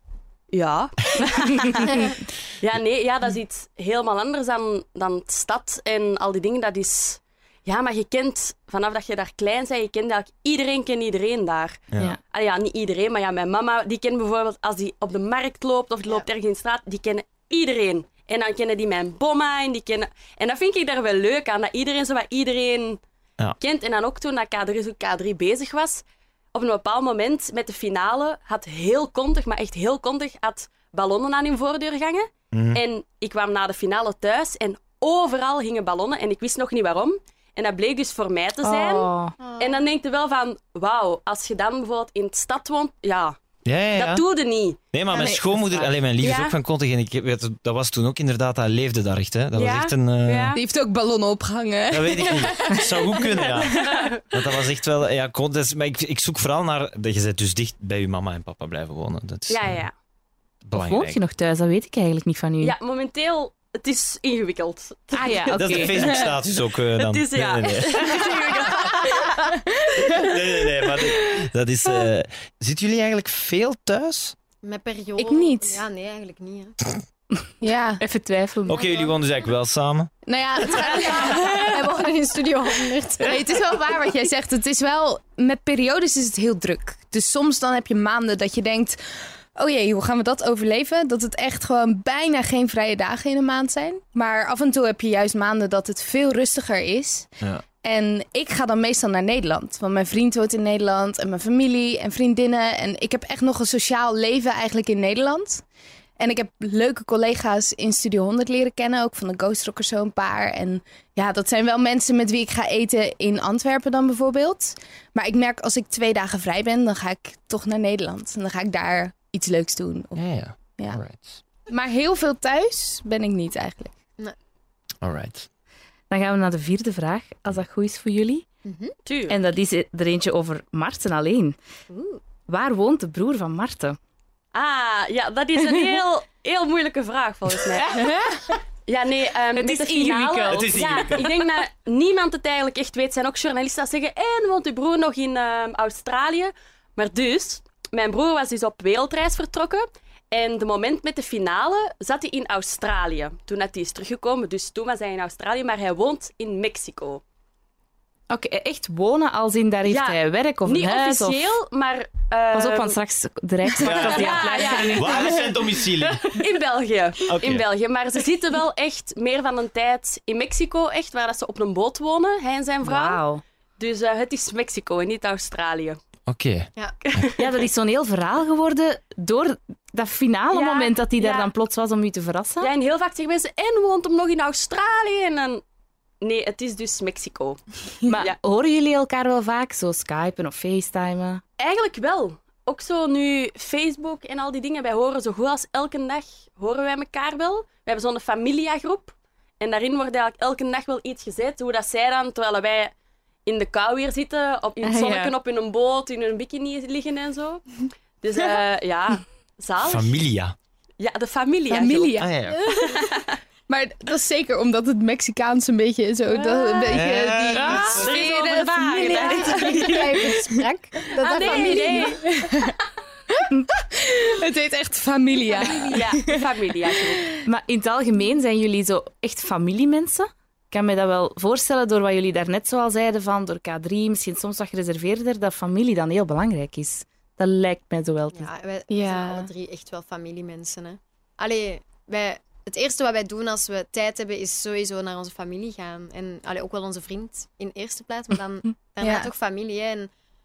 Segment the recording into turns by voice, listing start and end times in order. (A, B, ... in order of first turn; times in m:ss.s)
0:00.5-0:23.0 A
0:01.9-0:02.2 B
0:23.6-0:26.0 A
0:26.5-0:43.4 A
0:32.5-0:32.8 C
0:38.6-0:39.3 D
0:39.4-0:39.8 B
0:43.6-0:44.2 C
0:43.9-0:44.8 A
0:44.9-0:50.6 C
0:45.1-0:45.9 D
0:46.2-0:46.5 A
0:49.5-0:50.6 A
0:50.5-0:52.8 E
0:51.9-0:59.8 C
0:53.6-0:54.2 A
0:59.5-0:59.9 A
1:00.6-1:01.2 C
1:00.7-1:02.7 D
1:02.6-1:06.3 A
1:05.1-1:06.0 D
1:05.5-1:08.2 C
1:06.9-1:09.6 A
1:10.0-1:14.3 C
1:14.6-1:16.8 B
1:15.2-1:15.8 E
1:17.6-1:18.0 E
1:18.0-1:18.9 D
1:18.7-1:20.1 C
1:18.8-1:19.1 B
1:20.2-1:22.0 E
1:20.7-1:23.5 B
1:23.2-1:45.6 E
1:46.2-2:00.2 E
2:00.1-2:01.4 C
2:01.7-2:03.9 E
2:05.0-2:05.5 C
2:06.1-2:08.4 D
2:08.6-2:08.9 B
2:09.0-2:09.4 A
2:09.3-2:11.6 D
2:11.9-2:12.2 B
2:12.5-2:14.0 D
2:14.5-2:18.0 A
2:17.8-2:18.4 D
2:17.9-2:18.3 E
2:18.8-2:37.2 A
2:19.5-2:21.2 D
2:20.5-2:21.3 C
2:38.3-2:41.4 D
2:39.9-2:43.0 A
2:42.5-2:45.5 D
2:43.8-2:46.4 C
2:43.8-2:45.6 A
2:46.2-2:53.2 A
2:47.2-2:47.6 C
2:52.8-2:53.4 D
2:53.8-2:56.0 A
2:56.3-2:57.3 C
2:57.0-2:57.5 A
2:57.4-3:02.7 D
3:00.5-3:01.5 A
3:02.6-3:05.6 A
3:06.2-3:08.4 A
3:08.0-3:11.4 D
3:11.6-3:22.9 A
3:23.4-3:30.2 A
3:24.8-3:25.3 D
3:29.8-3:30.5 C
3:31.0-3:33.4 A
3:31.7-3:32.4 E
3:32.2-3:32.7 C
3:32.5-3:33.1 B
3:33.7-3:40.6 E
3:36.9-3:38.1 C
3:37.5-3:38.0 D
3:37.7-3:40.0 A
3:38.9-3:40.1 D
3:39.0-3:42.2 B
3:41.2-3:42.3 A
3:41.4-3:42.8 E
3:43.3-3:47.4 E
3:45.9-3:47.3 A
3:47.4-3:58.5 D
3:58.3-4:10.1 B
3:58.9-3:59.5 E
4:09.0-4:09.3 E